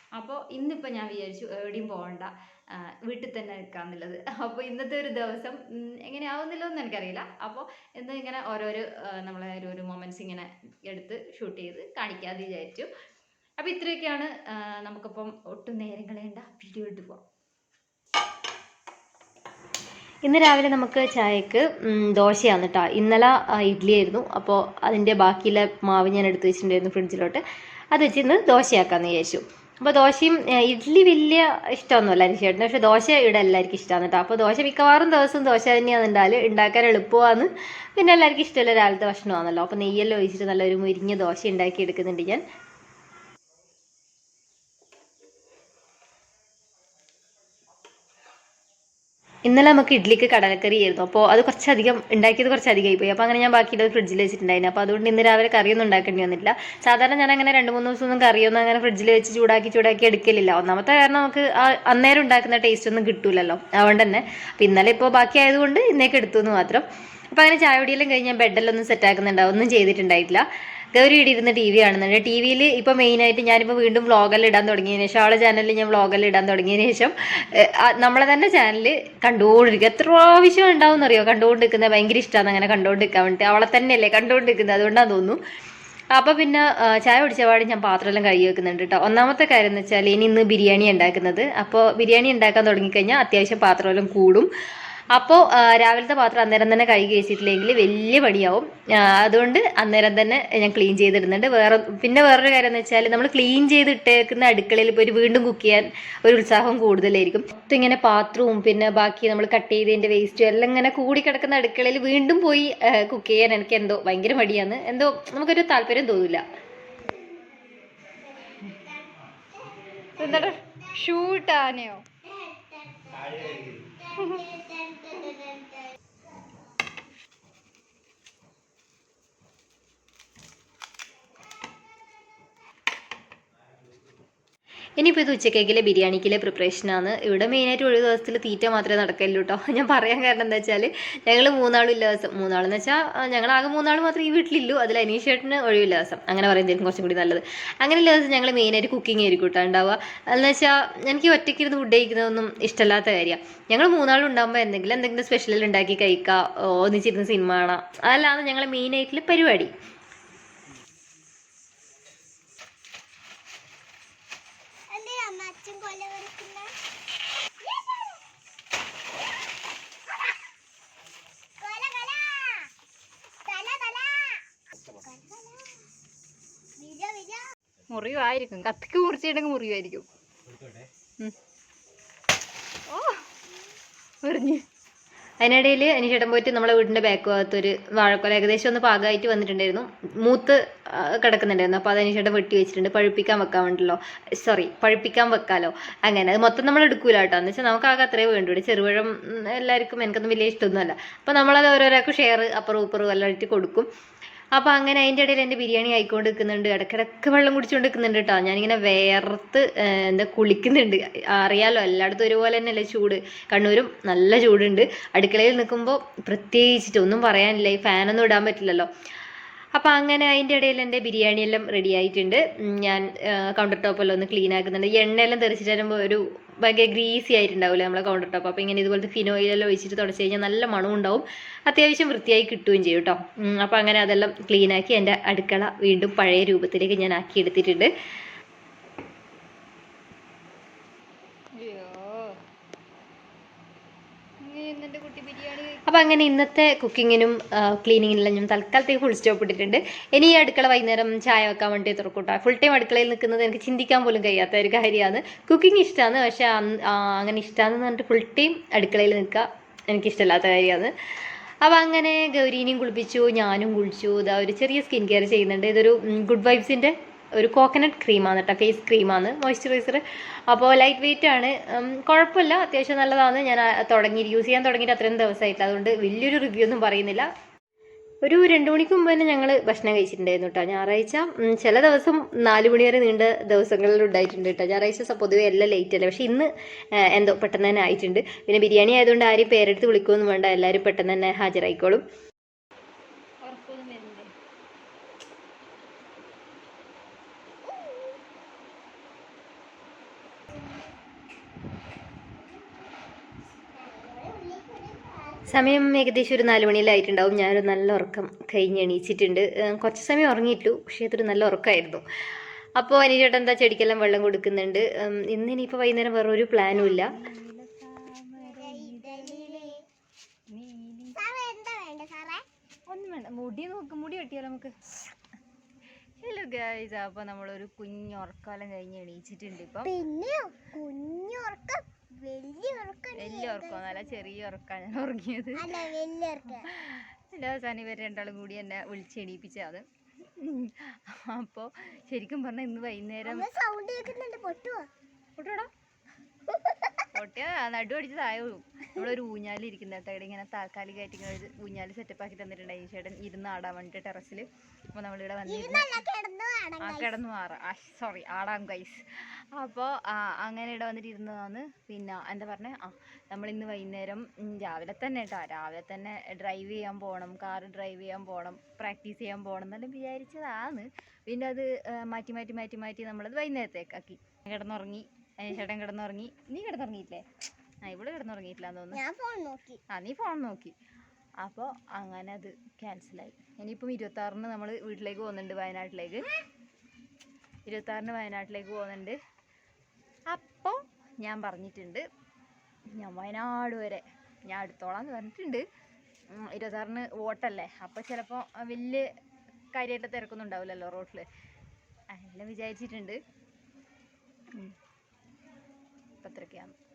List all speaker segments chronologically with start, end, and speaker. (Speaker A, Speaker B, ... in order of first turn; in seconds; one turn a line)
Speaker A: 0.1-12.9
Speaker A: 13.6-17.2
Speaker B: 20.2-27.4
Speaker B: 27.9-42.4
Speaker B: 49.5-70.4
Speaker B: 71.0-85.4
Speaker B: 86.1-94.5
Speaker B: 95.1-116.4
Speaker C: 118.4-119.1
Speaker A: 120.2-122.0
Speaker C: 122.3-125.8
Speaker A: 124.1-124.5
Speaker B: 135.0-159.7
Speaker C: 164.9-166.8
Speaker C: 167.7-168.2
Speaker C: 171.6-172.7
Speaker C: 173.5-175.8
Speaker C: 176.8-177.5
Speaker A: 177.9-180.1
Speaker A: 182.9-183.2
Speaker A: 184.2-184.7
Speaker B: 185.4-203.9
Speaker B: 204.6-218.9
Speaker B: 219.8-237.9
Speaker A: 241.6-242.4
Speaker A: 244.4-245.8
Speaker B: 245.9-260.9
Speaker B: 261.6-277.3
Speaker B: 278.2-292.0
Speaker A: 293.4-294.3
Speaker C: 303.7-305.6
Speaker B: 305.5-312.0
Speaker B: 312.8-317.1
Speaker A: 316.7-319.8
Speaker C: 318.4-319.8
Speaker A: 320.5-321.2
Speaker C: 321.2-322.4
Speaker A: 322.9-324.8
Speaker A: 326.2-329.9
Speaker C: 329.8-334.0
Speaker A: 333.2-335.9
Speaker C: 335.6-336.7
Speaker A: 336.5-343.6
Speaker C: 343.3-344.9
Speaker A: 345.4-345.7
Speaker C: 346.5-347.1
Speaker A: 347.1-356.1
Speaker C: 355.4-357.2
Speaker A: 356.8-377.3
Speaker A: 377.8-379.1
Speaker C: 378.9-379.8
Speaker A: 379.9-380.8
Speaker A: 381.4-386.3
Speaker A: 387.7-389.2
Speaker A: 390.3-392.1
Speaker A: 392.9-395.7
Speaker A: 396.3-399.1
Speaker A: 399.7-401.3
Speaker A: 402.1-403.2
Speaker A: 406.2-406.8